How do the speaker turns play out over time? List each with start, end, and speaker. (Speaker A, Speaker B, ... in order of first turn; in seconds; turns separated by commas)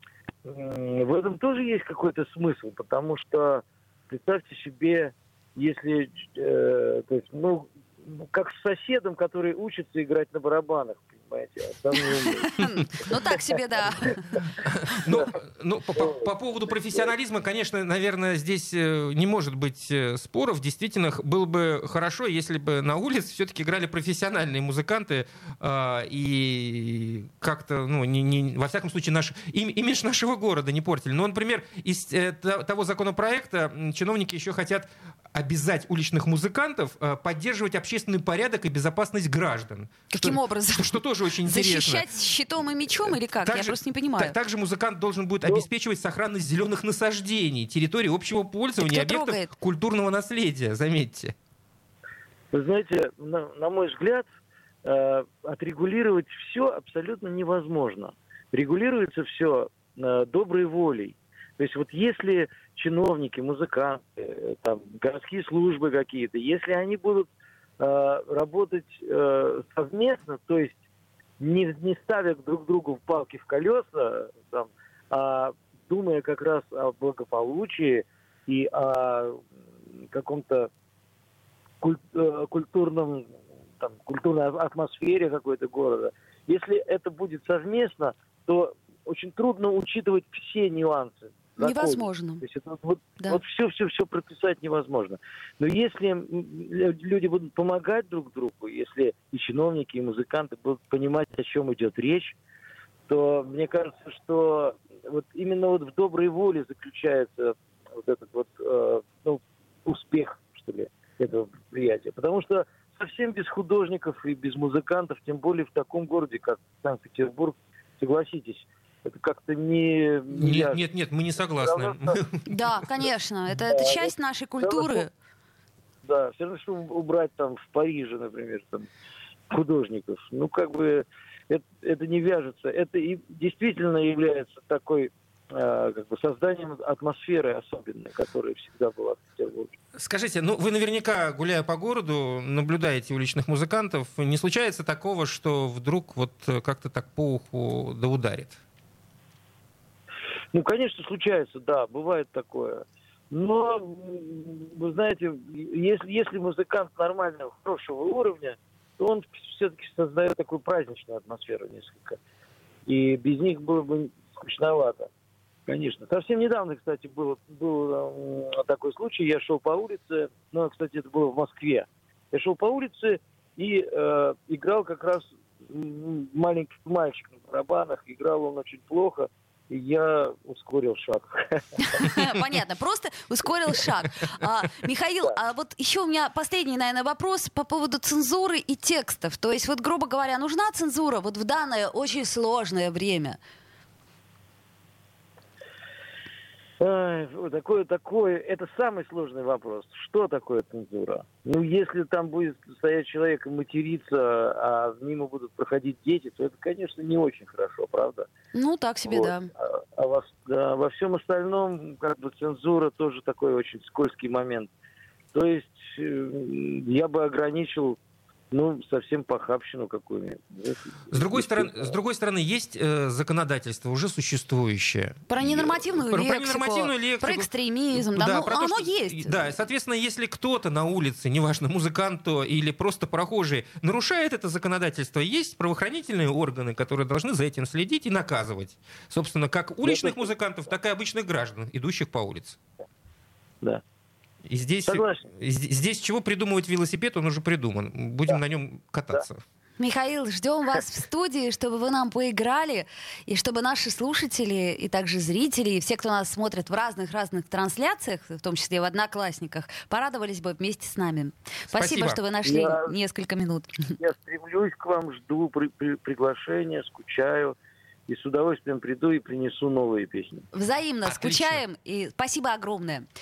Speaker A: 0.5-12.6, Speaker B: 12.4-14.2, Speaker A: 13.9-14.2, Speaker C: 14.6-42.1, Speaker A: 16.0-16.3, Speaker B: 40.1-44.4, Speaker C: 43.0-51.3, Speaker B: 48.8-49.5, Speaker A: 52.5-54.3, Speaker A: 54.9-67.3, Speaker A: 67.8-70.8, Speaker A: 71.4-79.4, Speaker A: 80.0-80.7, Speaker A: 81.8-102.4, Speaker B: 91.6-92.4, Speaker A: 103.1-120.8, Speaker C: 120.3-122.5, Speaker A: 121.6-122.2, Speaker B: 122.5-125.1, Speaker A: 123.7-125.1, Speaker A: 126.0-128.9, Speaker A: 129.5-139.7, Speaker C: 139.9-148.6, Speaker A: 150.5-162.2, Speaker A: 162.9-165.1, Speaker A: 165.7-182.1, Speaker B: 181.8-193.4, Speaker A: 196.8-208.3, Speaker B: 208.5-209.5, Speaker A: 209.1-214.7, Speaker A: 215.3-218.0, Speaker A: 218.5-221.9, Speaker C: 221.1-242.6, Speaker B: 225.3-229.6, Speaker A: 239.9-240.1, Speaker C: 244.5-249.4, Speaker A: 244.9-245.2, Speaker B: 249.8-264.0, Speaker C: 261.7-262.2, Speaker A: 262.4-262.9, Speaker A: 264.0-267.6, Speaker A: 268.1-270.5, Speaker B: 270.5-273.1, Speaker C: 271.1-271.6